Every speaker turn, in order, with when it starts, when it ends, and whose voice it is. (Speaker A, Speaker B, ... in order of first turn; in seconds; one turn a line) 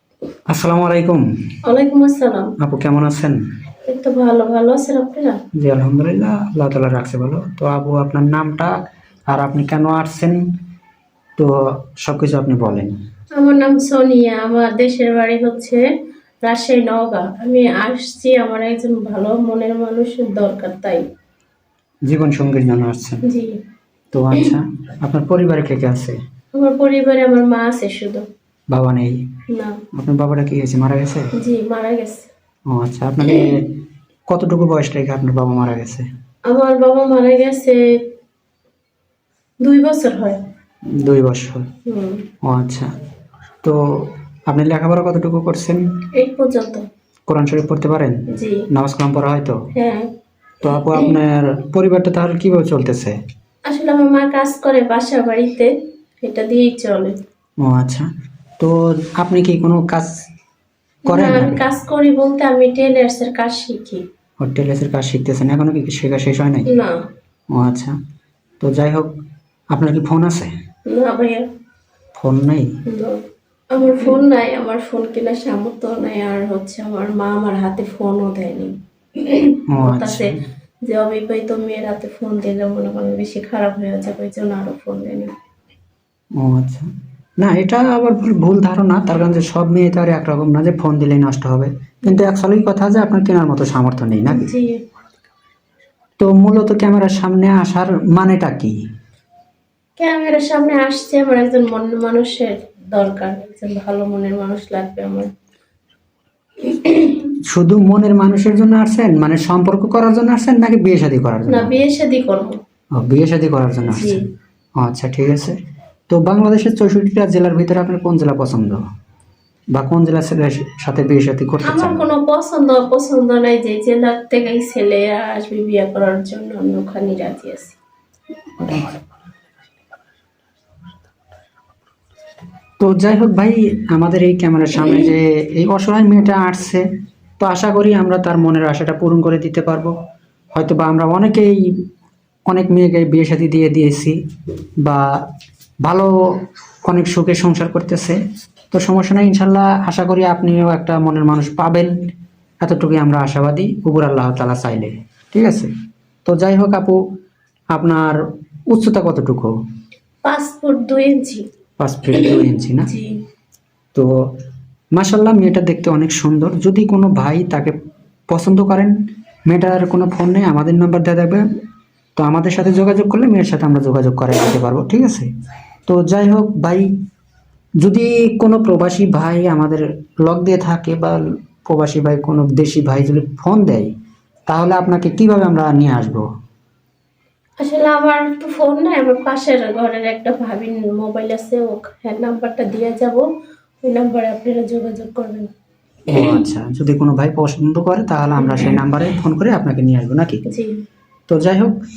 Speaker A: 0.5-1.2
Speaker B: 1.6-2.5
Speaker A: 2.6-3.4
Speaker B: 3.9-5.4
Speaker A: 5.6-8.7
Speaker A: 9.3-10.4
Speaker A: 12.0-12.9
Speaker B: 13.4-15.8
Speaker B: 16.4-21.0
Speaker A: 22.1-23.2
Speaker B: 23.2-23.6
Speaker A: 24.1-26.1
Speaker B: 26.5-28.2
Speaker A: 28.7-29.2
Speaker B: 29.5-29.8
Speaker A: 29.9-31.3
Speaker B: 31.4-32.3
Speaker A: 32.7-33.7
Speaker A: 34.3-36.0
Speaker B: 36.5-37.8
Speaker B: 39.6-40.4
Speaker A: 40.9-41.6
Speaker B: 41.9-42.3
Speaker A: 42.4-42.9
Speaker A: 43.6-45.8
Speaker B: 46.1-46.8
Speaker A: 47.3-49.5
Speaker B: 48.3-48.6
Speaker B: 49.7-50.1
Speaker A: 50.6-53.1
Speaker B: 53.6-57.1
Speaker A: 57.6-58.1
Speaker A: 58.6-60.1
Speaker B: 61.1-64.0
Speaker A: 61.1-61.6
Speaker A: 64.4-66.7
Speaker B: 66.7-67.0
Speaker A: 67.5-67.9
Speaker A: 68.6-69.1
Speaker A: 69.7-70.5
Speaker B: 70.9-71.5
Speaker A: 72.2-72.7
Speaker B: 72.9-73.2
Speaker B: 73.7-80.3
Speaker A: 79.7-80.3
Speaker B: 80.8-85.3
Speaker A: 86.4-86.9
Speaker A: 87.4-94.5
Speaker B: 94.3-94.8
Speaker A: 96.2-98.7
Speaker B: 100.0-105.3
Speaker B: 106.7-107.2
Speaker A: 107.5-111.7
Speaker B: 111.5-112.6
Speaker A: 113.0-114.2
Speaker B: 113.9-114.2
Speaker A: 114.8-115.5
Speaker A: 116.1-118.8
Speaker A: 119.7-122.0
Speaker B: 121.7-127.8
Speaker A: 128.6-129.0
Speaker A: 132.8-136.8
Speaker A: 137.4-139.9
Speaker A: 140.5-141.6
Speaker A: 142.5-144.1
Speaker A: 145.8-146.1
Speaker A: 146.8-148.2
Speaker A: 148.7-151.9
Speaker A: 152.6-155.7
Speaker A: 156.2-156.9
Speaker A: 157.7-158.2
Speaker A: 158.7-159.5
Speaker B: 160.2-161.4
Speaker A: 161.8-162.9
Speaker B: 162.1-163.2
Speaker A: 164.9-167.7
Speaker A: 168.3-168.9
Speaker A: 169.5-171.4
Speaker A: 172.2-175.3
Speaker A: 175.9-176.9
Speaker A: 177.8-183.9
Speaker A: 184.5-186.2
Speaker B: 187.6-193.2
Speaker B: 193.8-195.5
Speaker A: 196.1-200.4
Speaker B: 196.1-196.4
Speaker B: 200.5-200.7
Speaker A: 201.3-201.7